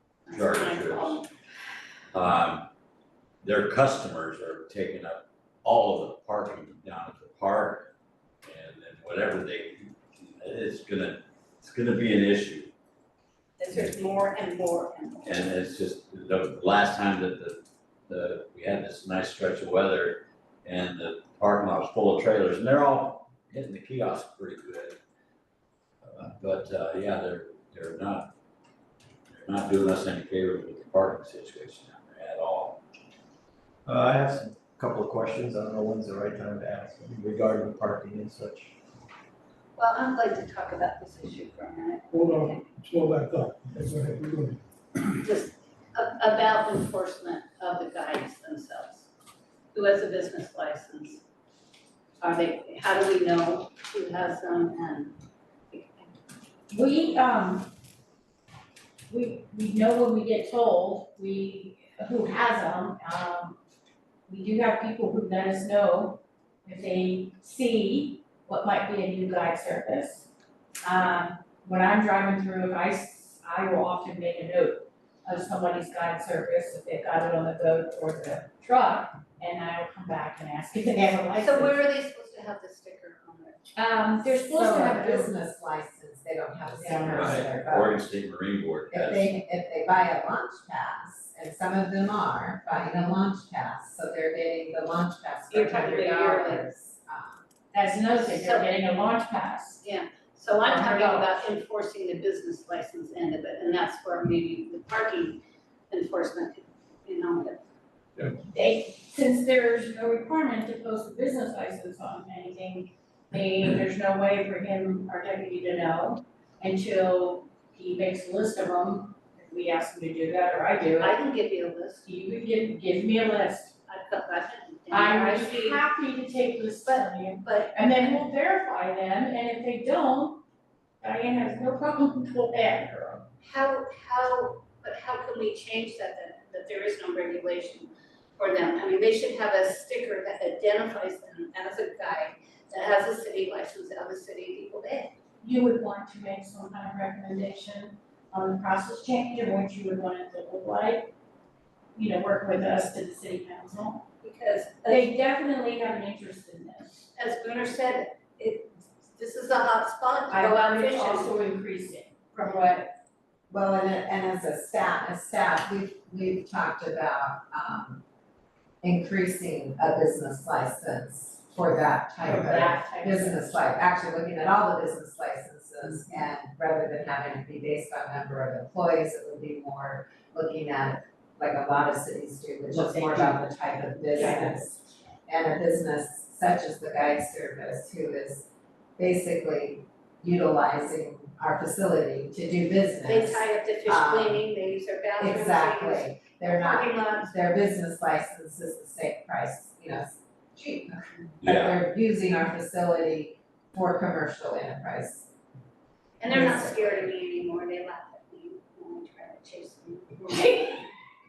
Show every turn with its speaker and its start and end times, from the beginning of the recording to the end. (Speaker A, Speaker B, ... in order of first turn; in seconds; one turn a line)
Speaker A: 0.3-1.2
Speaker B: 0.3-1.3
Speaker B: 2.1-2.7
Speaker B: 3.4-7.9
Speaker B: 8.4-12.7
Speaker A: 13.6-15.6
Speaker B: 15.2-25.0
Speaker B: 26.0-28.3
Speaker B: 29.3-32.8
Speaker C: 33.9-38.7
Speaker A: 39.8-42.6
Speaker D: 42.1-44.6
Speaker A: 45.2-49.1
Speaker A: 49.7-51.2
Speaker A: 52.2-55.2
Speaker A: 55.7-56.2
Speaker E: 56.7-57.7
Speaker E: 59.1-63.6
Speaker E: 64.3-70.3
Speaker E: 70.8-81.9
Speaker A: 81.3-83.6
Speaker E: 83.8-85.3
Speaker F: 84.4-88.0
Speaker E: 86.7-87.3
Speaker B: 87.1-89.4
Speaker F: 88.9-97.4
Speaker A: 95.5-96.7
Speaker E: 97.7-99.8
Speaker A: 98.1-98.7
Speaker A: 99.8-107.6
Speaker E: 100.6-101.4
Speaker E: 108.5-121.2
Speaker A: 121.0-122.0
Speaker E: 122.0-123.8
Speaker A: 123.9-125.8
Speaker E: 124.9-130.4
Speaker A: 126.8-128.2
Speaker E: 131.0-133.2
Speaker A: 133.4-145.1
Speaker E: 145.4-151.1
Speaker E: 151.9-154.0
Speaker A: 154.2-155.1
Speaker E: 154.8-157.1
Speaker A: 157.1-161.3
Speaker E: 160.3-162.9
Speaker A: 162.3-162.8
Speaker F: 163.5-168.0
Speaker F: 168.8-194.5
Speaker E: 172.2-173.8
Speaker E: 182.7-183.4
Speaker E: 184.1-184.6
Speaker A: 193.1-197.3
Speaker F: 195.2-205.3
Speaker B: 201.4-201.8
Speaker A: 206.2-210.9
Speaker F: 206.3-206.9